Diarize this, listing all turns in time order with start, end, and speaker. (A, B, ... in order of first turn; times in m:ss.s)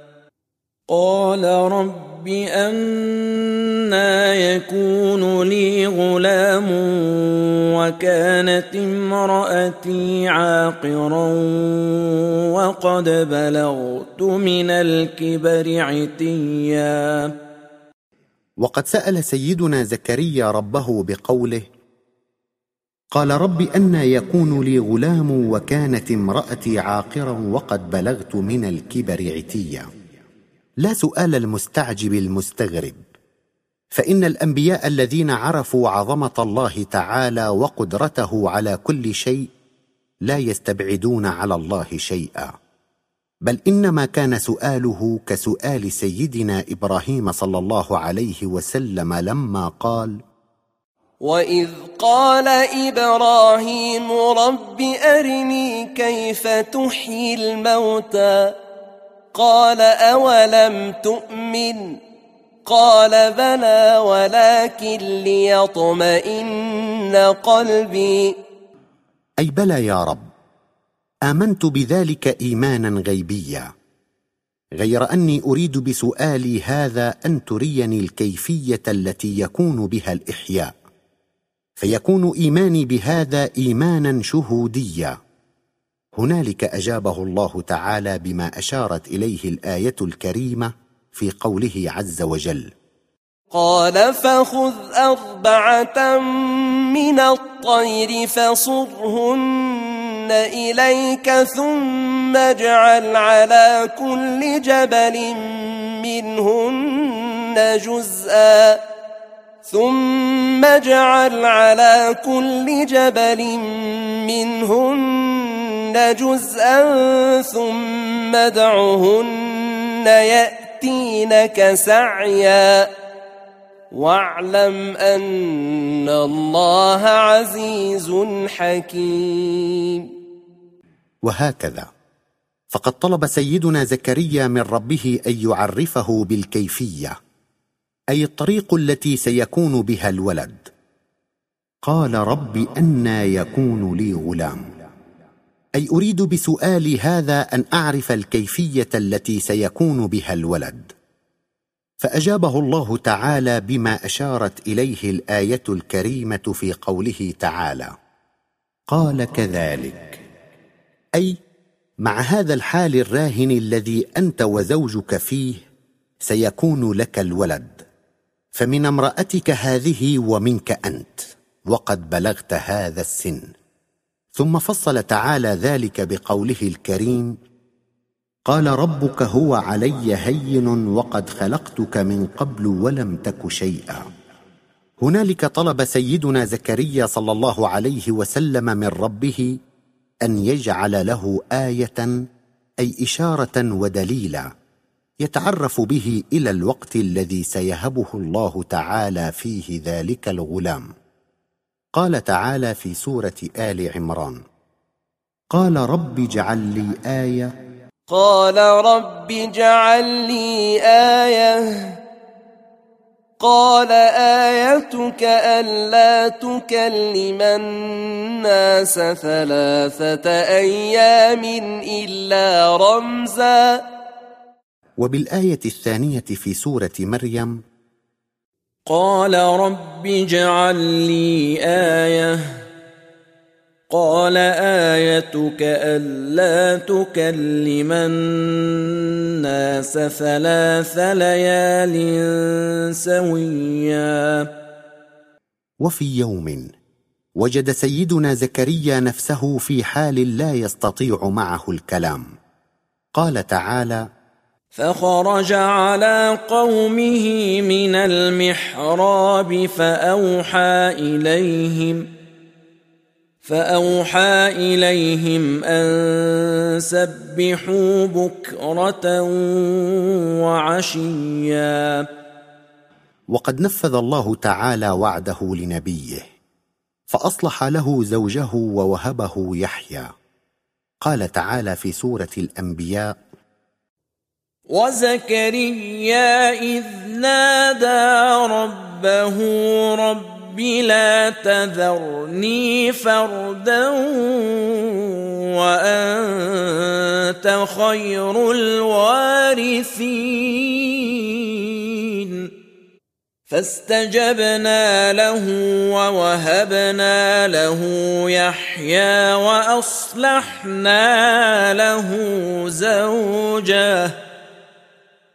0:00.9-0:17.4 A
0:18.6-0:21.6 B
0:23.1-0:29.9 B
0:30.8-0:33.0 B
0:33.9-0:39.5 B
0:40.2-0:42.5 B
0:43.4-0:50.2 B
0:51.2-0:58.6 C
0:59.3-1:02.0 C
1:02.6-1:08.3 C
1:09.4-1:10.2 B
1:11.2-1:13.7 B
1:14.8-1:20.7 B
1:21.8-1:25.2 B
1:26.2-1:32.7 B
1:33.5-1:48.8 C
1:49.6-2:02.9 C
2:03.9-2:10.1 C
2:11.2-2:11.9 B
2:12.7-2:17.1 B
2:18.1-2:20.7 B
2:21.8-2:24.7 B
2:25.8-2:30.9 B
2:32.0-2:37.9 B
2:38.9-2:40.2 B
2:42.0-2:45.6 B
2:46.2-2:47.8 B
2:48.5-2:53.5 B
2:54.4-2:57.4 B
2:58.5-3:04.0 B
3:05.0-3:09.5 B
3:10.2-3:12.1 B
3:12.8-3:14.5 B
3:15.2-3:20.9 B
3:22.0-3:24.4 B
3:25.5-3:27.5 B
3:28.1-3:32.0 C
3:33.4-3:43.8 C
3:45.0-3:47.6 B
3:48.9-3:52.5 A
3:53.9-4:04.5 A
4:05.8-4:06.7 B
4:07.4-4:12.2 B
4:13.2-4:14.0 B
4:14.8-4:22.1 A
4:23.4-4:32.1 A
4:33.3-4:36.2 B
4:37.1-4:40.1 B
4:41.0-4:43.1 B
4:44.7-5:02.5 A
5:03.5-5:14.2 A